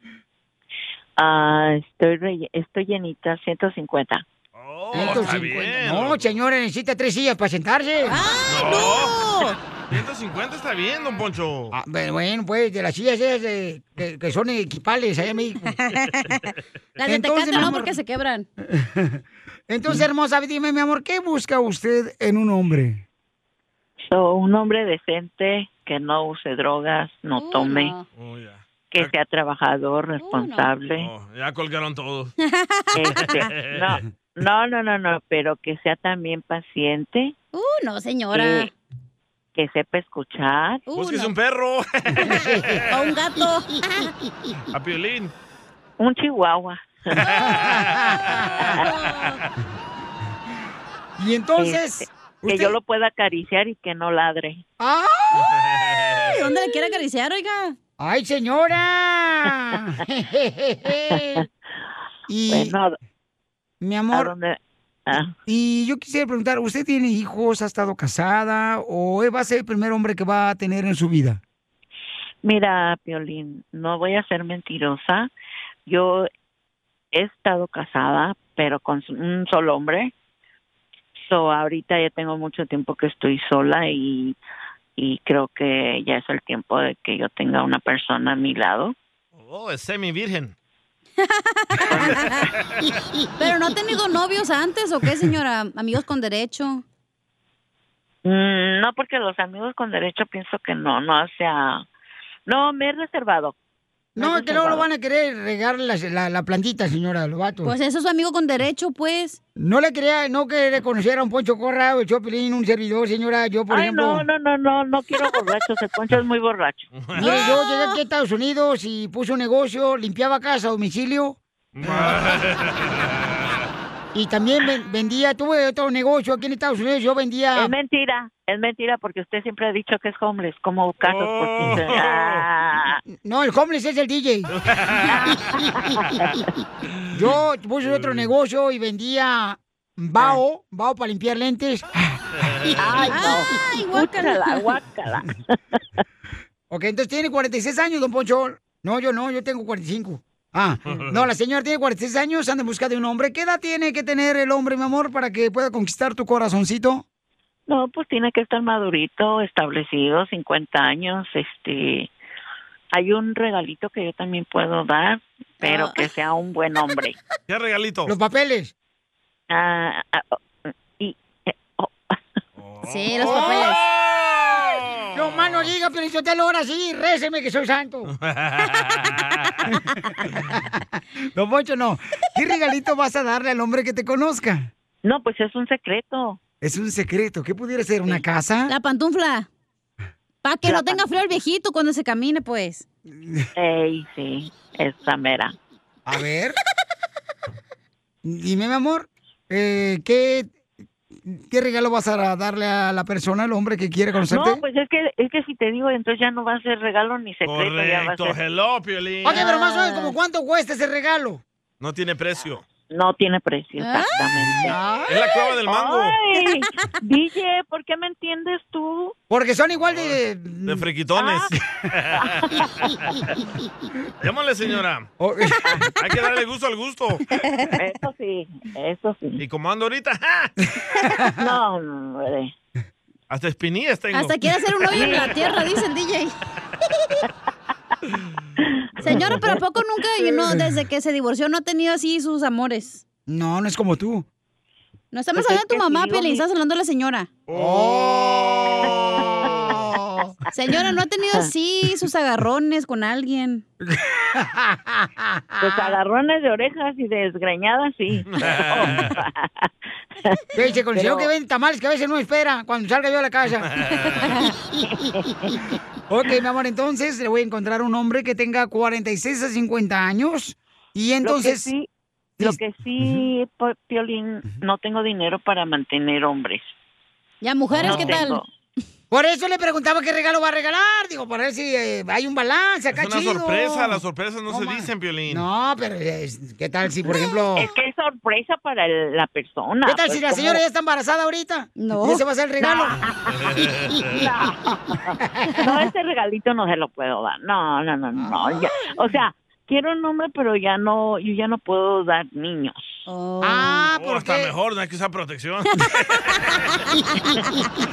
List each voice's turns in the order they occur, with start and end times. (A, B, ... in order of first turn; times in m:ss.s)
0:01.2-0:04.2 A
0:04.6-0:06.3 B
0:04.9-0:08.2 C
0:08.1-0:09.6 D
0:08.5-0:09.2 B
0:09.9-0:11.8 B
0:11.7-0:15.7 C
0:15.8-0:16.4 D
0:17.0-0:18.5 D
0:17.1-0:17.9 C
0:18.6-0:23.0 C
0:24.1-0:27.9 A
0:27.4-0:28.0 D
0:28.2-0:29.1 B
0:28.9-0:31.1 A
0:30.2-0:30.7 D
0:30.9-0:32.3 B
0:32.4-0:33.3 D
0:33.0-0:37.4 A
0:33.0-0:33.9 B
0:37.5-0:38.7 D
0:38.3-0:38.7 A
0:39.6-0:40.8 A
0:40.9-0:41.3 D
0:40.9-0:43.1 B
0:42.3-0:42.8 C
0:42.9-0:44.1 D
0:44.7-0:45.3 B
0:46.0-0:47.2 A
0:47.2-0:48.5 B
0:47.5-0:48.5 C
0:48.9-0:49.4 D
0:51.2-0:52.8 C
0:51.6-0:54.6 A
0:54.8-0:55.5 C
0:55.5-0:56.5 B
0:56.3-0:57.8 D
0:58.0-1:01.4 C
1:01.1-1:01.4 A
1:02.3-1:02.8 C
1:02.5-1:03.0 A
1:03.8-1:04.3 C
1:04.1-1:05.4 A
1:05.5-1:11.4 C
1:12.4-1:15.3 A
1:15.9-1:16.3 A
1:17.1-1:20.1 A
1:21.3-1:24.4 A
1:25.0-1:29.0 A
1:29.4-1:30.6 B
1:31.6-1:32.4 D
1:31.8-1:33.0 B
1:33.4-1:36.8 D
1:38.2-1:41.8 A
1:42.5-1:43.6 A
1:44.2-1:47.7 C
1:44.2-1:44.9 A
1:47.6-1:49.4 D
1:49.6-1:54.3 C
1:53.7-1:56.9 A
1:56.9-1:57.6 B
1:57.2-2:02.2 C
1:57.2-1:58.0 D
2:01.8-2:03.7 B
2:04.1-2:07.7 C
2:07.6-2:13.0 A
2:11.0-2:12.5 B
2:13.2-2:14.5 C
2:14.5-2:15.4 B
2:15.1-2:16.2 A
2:17.1-2:22.0 C
2:17.8-2:18.3 B
2:22.4-2:22.8 B
2:22.8-2:25.3 A
2:23.0-2:24.7 D
2:26.7-2:37.0 C
2:30.9-2:31.3 B
2:37.7-2:42.1 A
2:42.9-2:47.2 A
2:45.6-2:46.0 D
2:47.5-2:48.1 B
2:48.1-2:48.7 C
2:49.5-2:50.4 A
2:51.0-2:52.2 A
2:52.6-2:55.7 B
2:52.8-2:53.8 D
2:53.2-2:53.7 C
2:55.1-2:58.1 C
2:58.1-2:59.6 B
3:01.4-3:04.7 C
3:05.0-3:06.4 A
3:06.6-3:08.7 C
3:08.7-3:09.5 D
3:10.4-3:12.8 D
3:10.7-3:11.1 A
3:13.2-3:13.4 C
3:13.6-3:15.6 A
3:16.1-3:16.6 C
3:18.2-3:20.5 C
3:21.2-3:24.6 C
3:24.3-3:28.4 A
3:27.4-3:29.5 B
3:29.2-3:31.4 C
3:29.3-3:30.1 D
3:31.8-3:32.6 B
3:32.9-3:34.8 A
3:33.8-3:34.1 D
3:34.4-3:35.2 C
3:35.1-3:36.2 B
3:35.7-3:39.2 A
3:39.3-3:40.9 C
3:39.8-3:42.9 B
3:41.2-3:41.5 A
3:44.2-3:45.1 B
3:45.2-3:45.6 C
3:46.0-3:47.2 B
3:47.8-3:49.4 A
3:49.4-3:50.5 B
3:51.4-3:52.5 A
3:53.3-3:55.1 B
3:54.1-3:56.4 D
3:54.9-3:55.6 A
3:58.6-3:59.5 A
3:59.0-4:03.0 D
3:59.0-3:59.5 B
4:03.3-4:04.3 C
4:05.1-4:07.3 D
4:05.4-4:06.4 A
4:07.5-4:09.8 B
4:07.5-4:10.3 C
4:09.2-4:09.5 A
4:10.5-4:13.6 D
4:13.8-4:15.9 C
4:15.6-4:19.7 A
4:18.3-4:19.2 B
4:20.6-4:23.7 C
4:20.9-4:21.3 A
4:23.7-4:24.3 B
4:25.0-4:25.5 A
4:26.1-4:31.7 C
4:31.2-4:31.9 A
4:32.4-4:33.3 C
4:32.4-4:36.7 A
4:37.4-4:38.4 D
4:37.7-4:38.2 C
4:37.8-4:38.5 A
4:39.1-4:47.7 C
4:42.9-4:45.5 B
4:47.6-4:50.6 A
4:49.8-4:53.0 C
4:51.8-4:52.2 D
4:53.3-4:54.3 B
4:54.3-4:54.6 A
4:55.6-5:03.0 A
5:03.1-5:03.8 D
5:03.4-5:04.5 C
5:03.9-5:06.6 B